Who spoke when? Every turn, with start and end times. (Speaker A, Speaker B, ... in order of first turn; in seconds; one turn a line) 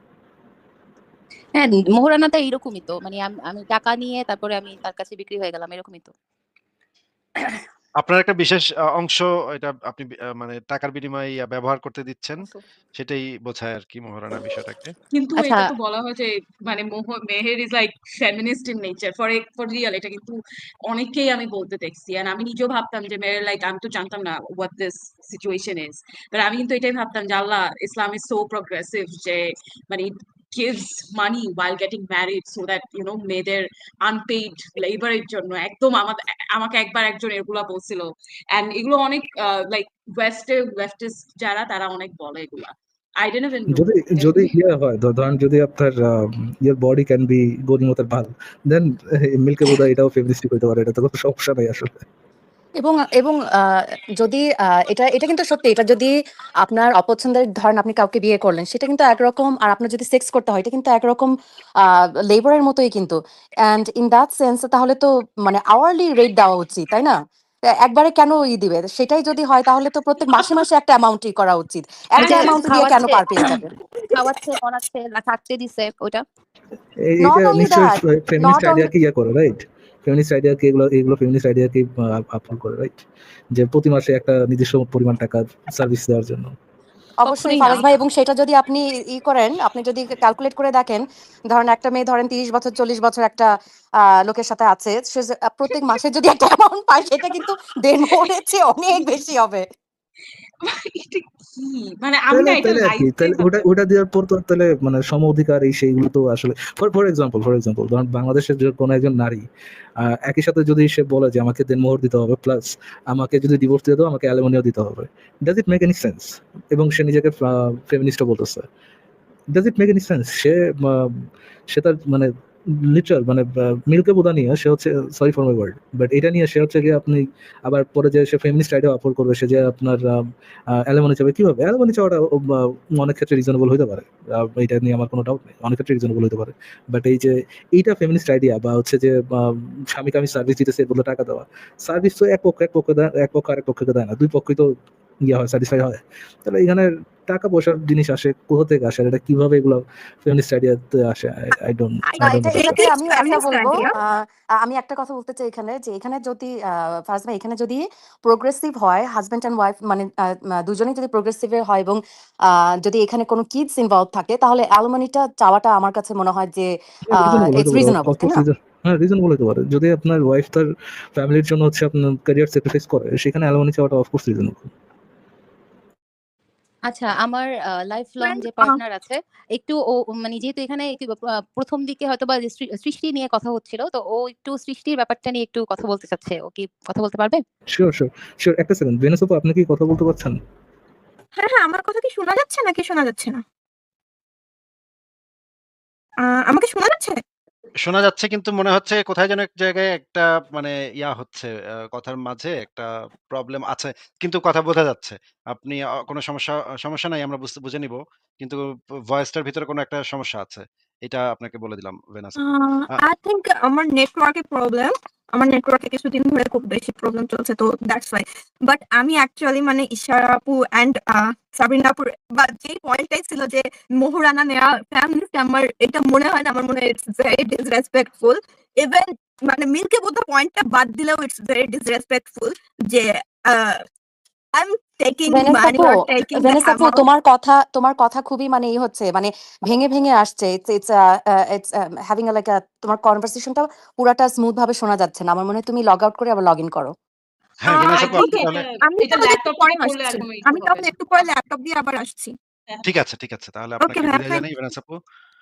Speaker A: 1.6-6.1
Speaker B: 8.0-14.9
Speaker C: 15.1-43.9
Speaker A: 15.3-15.7
Speaker D: 43.7-52.0
Speaker E: 52.8-53.4
Speaker E: 54.2-56.1
Speaker E: 56.6-61.3
Speaker E: 61.8-67.1
Speaker E: 67.8-73.7
Speaker A: 72.2-73.4
Speaker C: 72.2-72.6
Speaker F: 74.0-74.4
Speaker A: 74.1-76.2
Speaker D: 77.1-83.0
Speaker E: 77.2-78.9
Speaker D: 83.5-86.5
Speaker E: 87.2-93.5
Speaker A: 87.2-87.8
Speaker E: 94.2-99.6
Speaker C: 100.6-103.5
Speaker D: 102.3-109.5
Speaker D: 110.0-118.7
Speaker D: 119.5-122.3
Speaker D: 122.9-144.7
Speaker D: 145.2-152.9
Speaker F: 152.0-153.9
Speaker E: 152.2-160.1
Speaker E: 160.6-162.0
Speaker E: 162.8-168.4
Speaker D: 167.1-174.7
Speaker A: 176.9-187.4
Speaker F: 178.2-178.8
Speaker D: 187.7-190.4
Speaker F: 191.3-193.4
Speaker F: 196.2-197.2
Speaker B: 197.8-208.6
Speaker B: 209.1-212.4
Speaker F: 212.4-233.8
Speaker F: 234.5-237.0
Speaker E: 235.3-246.9
Speaker B: 247.6-248.7
Speaker F: 247.7-252.3
Speaker C: 247.7-251.3
Speaker B: 252.8-254.9
Speaker F: 253.8-254.4